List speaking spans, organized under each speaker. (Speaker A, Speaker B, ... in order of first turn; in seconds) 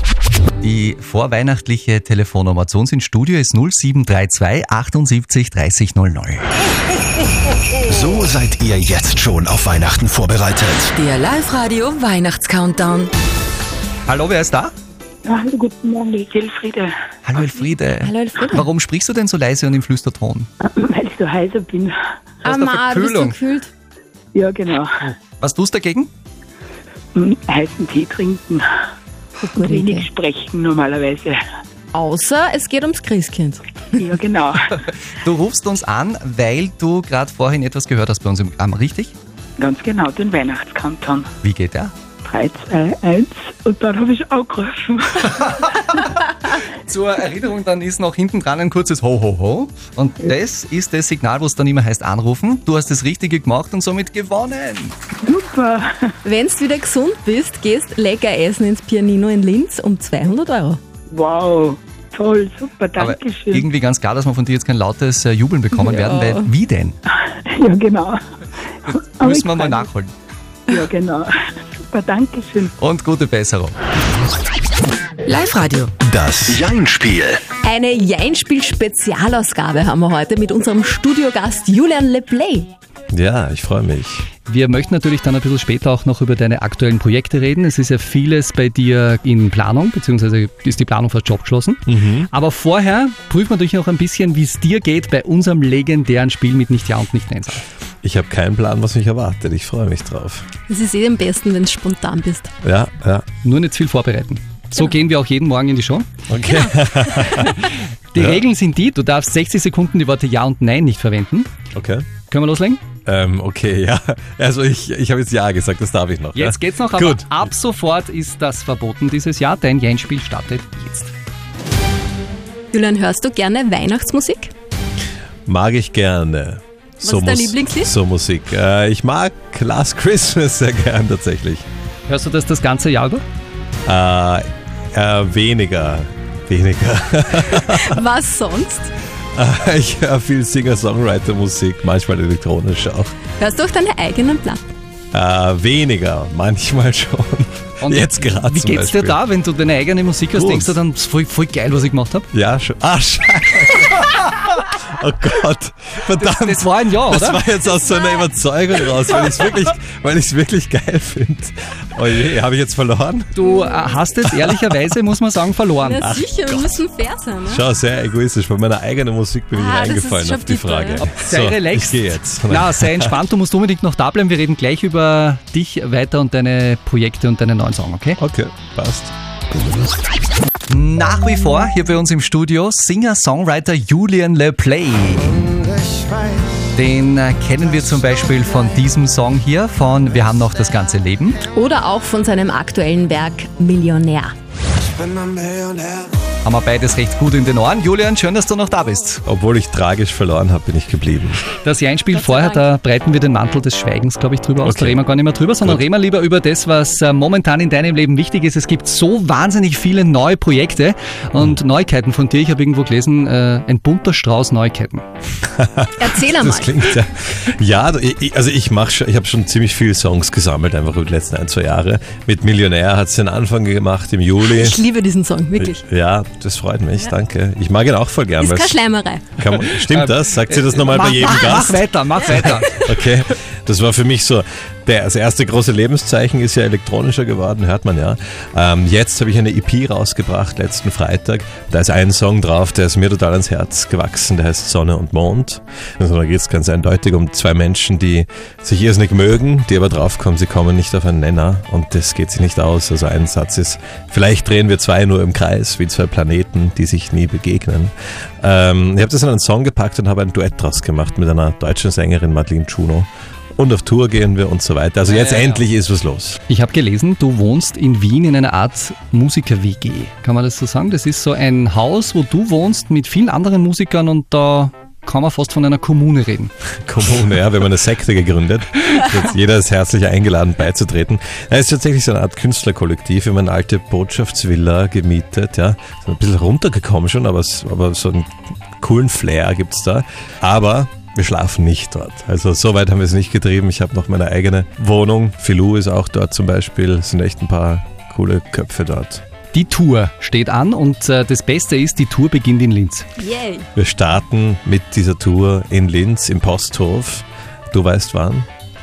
Speaker A: 0.6-6.5, 14.1-14.7, 17.2-20.5, 22.4-23.4, 25.4-26.1, 35.1-39.1, 41.4-41.9, 45.3-54.9, 63.0-67.0, 68.9-70.1, 72.8-73.8, 84.5-97.6, 103.4-106.1, 108.1-111.5, 112.3-112.8, 116.3-121.1, 132.1-133.2, 147.8-152.3, 156.2-157.4, 163.3-166.1, 171.0-178.2, 180.7-185.4, 186.7-191.4, 196.4-199.2, 201.6-215.0, 229.6-232.8, 265.1-265.6, 266.5-276.5, 299.5-303.1
Speaker B: 7.8-10.9, 76.0-77.4
Speaker C: 10.9-13.1, 75.2-75.9
Speaker D: 15.2-16.9, 20.6-21.9, 24.3-24.9, 27.1-28.6, 29.4-31.4, 34.0-34.6, 39.6-41.3, 42.2-45.3, 55.2-55.9, 61.1-63.7, 67.1-68.2, 68.9-69.9, 70.7-71.3, 71.9-72.7
Speaker E: 18.0-18.6, 22.4-23.7, 29.4-30.1, 31.9-34.0, 56.2-60.8, 65.7-66.4, 77.6-82.7, 100.7-102.5, 122.7-124.5, 127.0-127.9, 137.5-138.9, 143.4-144.6, 163.4-164.0, 165.8-167.6, 169.6-171.0, 191.5-194.3, 202.1-202.6, 216.0-217.0, 224.4-225.8, 228.4-229.3, 231.2-231.6, 303.2-303.7
Speaker F: 83.1-84.3, 91.9-92.3, 98.0-100.4, 102.6-103.2, 106.3-108.4, 111.7-112.1, 113.0-117.5, 125.5-131.7, 133.8-134.4, 134.9-138.0, 139.3-143.2, 145.1-149.2, 150.3-150.8, 152.3-163.3, 164.3-164.6, 166.0-166.8, 167.4-173.1, 178.2-179.1, 199.2-201.4, 204.6-205.0, 215.5-224.8, 225.6-228.8, 229.3-266.4, 276.9-299.2, 303.8-308.5